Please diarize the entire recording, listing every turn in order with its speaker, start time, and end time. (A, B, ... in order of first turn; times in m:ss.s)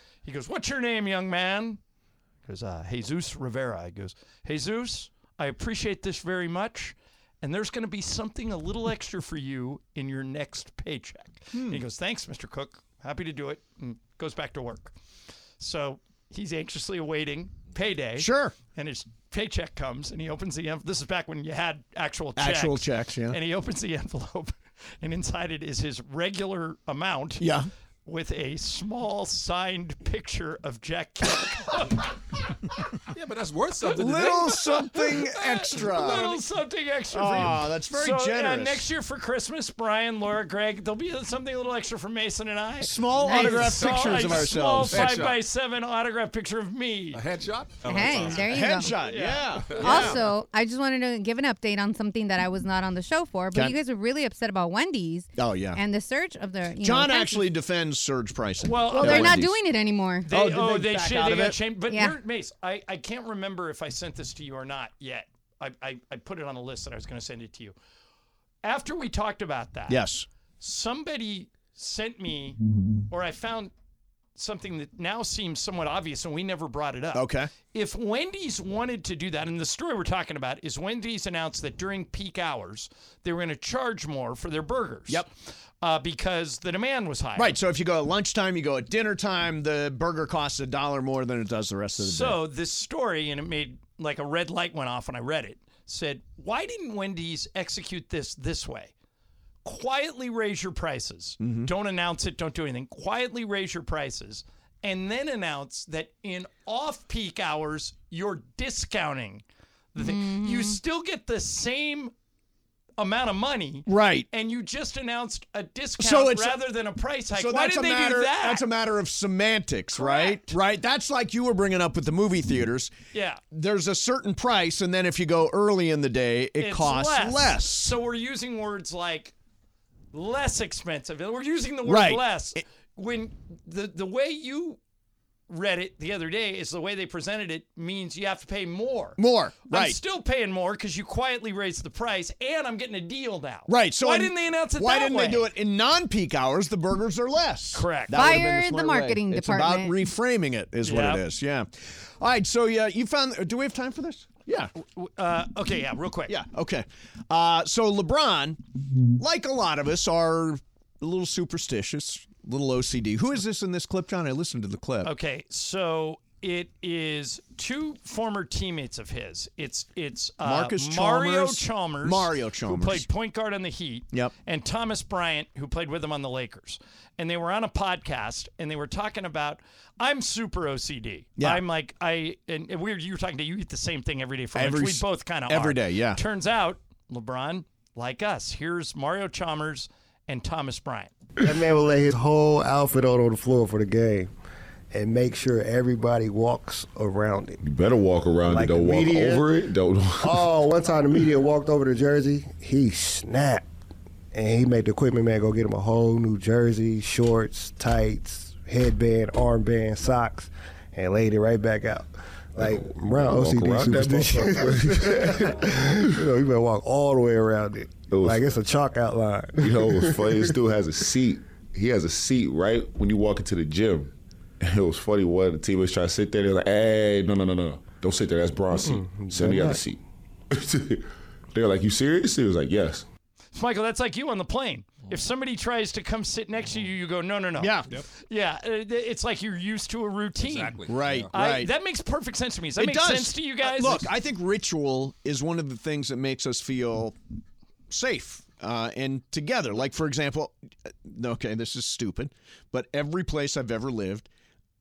0:00.2-0:01.8 A
0:02.4-0:14.9 A
0:11.5-0:11.8 B
0:15.6-0:27.5 A
0:18.2-0:18.6 B
0:22.4-0:23.4 B
0:27.4-0:27.7 B
0:28.0-0:32.5 A
0:33.1-0:34.7 C
0:33.9-0:36.4 B
0:34.5-0:47.2 A
0:35.8-0:36.1 C
0:37.1-0:38.9 B
0:42.8-0:45.3 B
0:43.2-0:43.8 D
0:44.1-0:45.4 C
0:47.1-0:48.5 C
0:47.8-0:48.9 D
0:48.2-0:50.2 B
0:49.0-0:50.1 A
0:49.8-0:57.4 D
0:53.5-0:53.8 B
0:55.4-0:55.8 B
0:56.8-0:59.6 B
0:58.6-0:59.5 A
0:58.9-1:00.2 D
1:00.2-1:07.7 A
1:00.3-1:01.6 B
1:01.9-1:02.2 D
1:08.6-1:10.0 A
1:09.9-1:10.2 B
1:10.6-1:12.6 A
1:13.1-1:13.7 A
1:14.4-1:25.3 A
1:17.1-1:17.5 B
1:25.8-1:27.5 A
1:27.4-1:32.4 B
1:32.0-1:38.9 A
1:39.6-1:49.4 A
1:41.4-1:41.7 B
1:49.9-1:52.1 A
1:50.0-1:50.8 D
1:53.0-1:58.6 A
1:53.9-1:54.3 B
1:56.0-1:56.6 B
1:57.3-2:02.9 B
2:00.0-2:00.6 A
2:03.1-2:03.4 A
2:03.5-2:08.0 B
2:06.6-2:09.3 A
2:10.1-2:14.8 A
2:11.8-2:12.6 B
2:15.5-2:25.5 A
2:19.2-2:20.0 B
2:23.7-2:34.7 B
2:27.7-2:28.4 A
2:28.1-2:30.0 D
2:30.8-2:31.2 A
2:34.8-2:36.4 A
2:36.3-2:38.6 B
2:39.2-2:45.1 B
2:45.0-3:11.1 A
2:50.4-2:53.1 B
3:01.4-3:01.6 B
3:04.5-3:06.2 B
3:11.4-3:14.3 E
3:14.9-3:17.6 E
3:17.6-3:20.5 F
3:18.5-3:19.5 E
3:20.2-3:23.6 E
3:24.3-3:40.5 E
3:32.6-3:35.7 F
3:38.0-3:38.6 F
3:39.6-3:53.0 F
3:48.7-3:49.8 E
3:53.5-4:04.1 A
3:57.6-3:57.9 B
4:00.4-4:01.3 C
4:00.8-4:01.7 B
4:02.8-4:07.2 B
4:07.9-4:14.3 B